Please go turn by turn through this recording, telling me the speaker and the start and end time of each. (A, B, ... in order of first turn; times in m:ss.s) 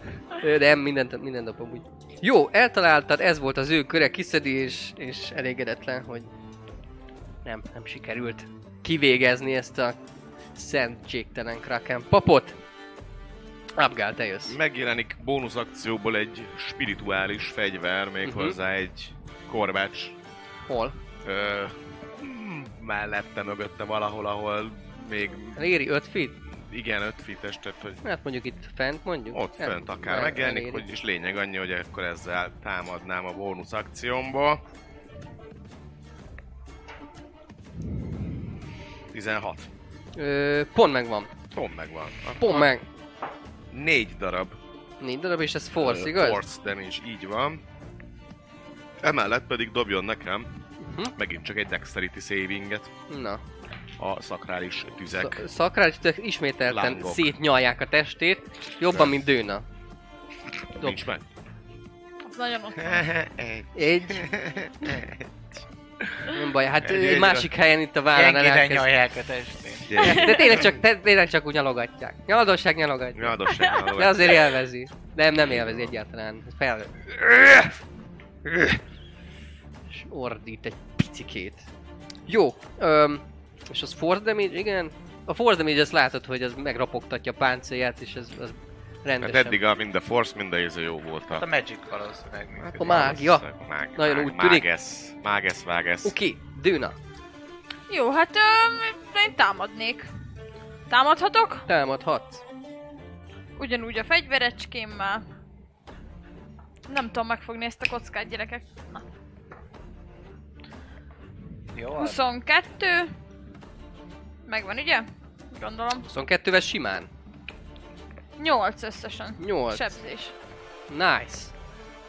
0:00.3-0:06.3 A
0:07.4-0:10.0 A
0:10.6-0:12.6 A
0:13.8-0:14.6 A
0:14.5-0:20.2 B
0:18.2-0:18.6 A
0:20.7-0:21.0 A
0:21.2-0:25.7 B
0:25.6-0:26.4 A
0:26.5-0:28.0 B
0:28.0-0:30.8 A
0:29.3-0:34.6 B
0:39.1-0:39.7 B
0:40.2-0:41.3 A
0:41.5-0:42.7 B
0:42.4-0:42.8 A
0:43.7-0:44.6 B
0:45.0-0:46.4 A
0:45.8-0:47.6 B
0:49.0-0:52.9 B
0:50.8-0:51.1 A
0:53.1-0:53.4 A
0:54.0-0:55.4 B
0:55.2-0:59.6 A
0:56.7-0:57.3 B
1:00.8-1:01.2 B
1:02.2-1:03.1 C
1:02.8-1:05.3 B
1:03.8-1:04.3 A
1:06.3-1:08.9 A
1:06.8-1:07.5 B
1:08.1-1:10.1 D
1:09.9-1:10.6 B
1:10.0-1:10.5 C
1:10.0-1:17.8 A
1:13.2-1:14.5 B
1:15.4-1:15.9 B
1:18.4-1:18.8 A
1:19.9-1:21.6 A
1:22.3-1:29.6 A
1:29.2-1:31.4 B
1:31.3-1:33.2 D
1:32.6-1:36.1 B
1:32.8-1:34.6 A
1:36.0-1:37.0 A
1:37.9-1:40.1 C
1:40.9-1:41.6 C
1:41.7-1:42.4 A
1:43.6-1:45.2 C
1:46.9-1:49.0 C
1:51.7-1:52.2 D
1:51.9-1:53.1 C
1:54.4-1:56.1 C
1:56.1-1:57.1 A
1:58.4-2:00.3 C
1:59.4-2:00.0 A
2:00.9-2:01.5 A